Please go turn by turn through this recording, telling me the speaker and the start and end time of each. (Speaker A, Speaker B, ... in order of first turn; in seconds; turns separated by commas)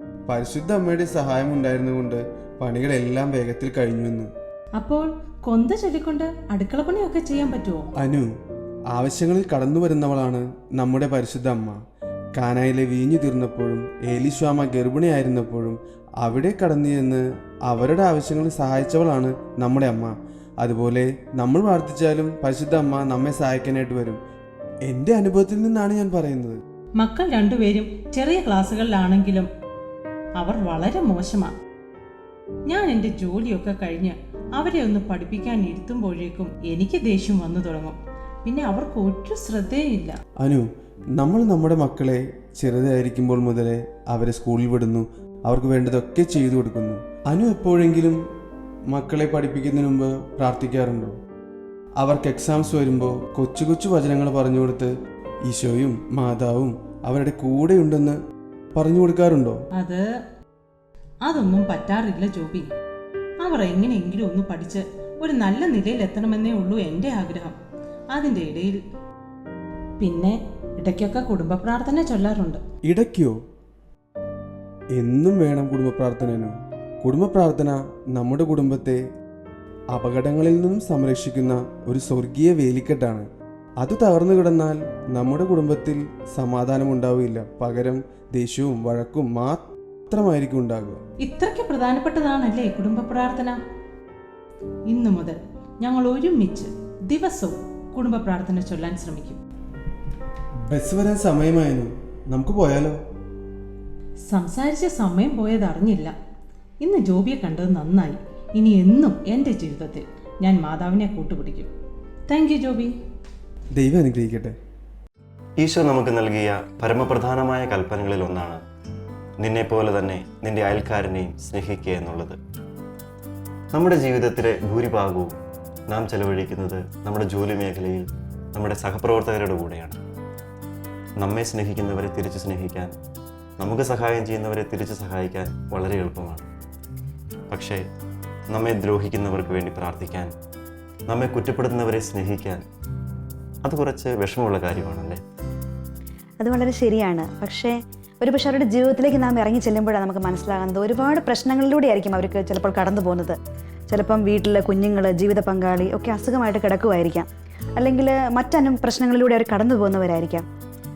Speaker A: 0.3-4.3, Speaker B: 4.8-7.9, Speaker A: 8.0-8.3, Speaker A: 8.9-11.8, Speaker A: 12.3-24.2, Speaker A: 24.9-26.6, Speaker B: 27.0-29.5, Speaker B: 30.4-31.5, Speaker B: 32.7-40.2, Speaker A: 40.4-40.6, Speaker A: 41.2-48.2, Speaker A: 48.9-51.2, Speaker A: 52.0-54.9, Speaker A: 55.5-58.2, Speaker A: 58.7-59.6, Speaker B: 59.7-60.0, Speaker B: 61.2-62.7, Speaker B: 63.4-67.6, Speaker B: 68.1-68.8, Speaker B: 70.0-72.6, Speaker A: 72.9-73.4, Speaker A: 74.9-79.0, Speaker A: 79.9-83.3, Speaker A: 83.8-91.0, Speaker B: 91.2-93.6, Speaker B: 94.9-99.4, Speaker A: 100.7-103.0, Speaker B: 104.3-106.1, Speaker B: 106.8-111.7, Speaker B: 112.3-112.9, Speaker A: 113.8-114.5, Speaker C: 115.6-118.6, Speaker C: 119.4-122.4, Speaker C: 123.7-125.3, Speaker C: 125.9-130.0, Speaker C: 131.2-132.9, Speaker C: 133.6-136.4, Speaker C: 137.5-137.8, Speaker C: 138.5-140.3, Speaker C: 141.1-142.6, Speaker C: 143.6-145.2, Speaker D: 146.4-153.4, Speaker D: 153.9-160.4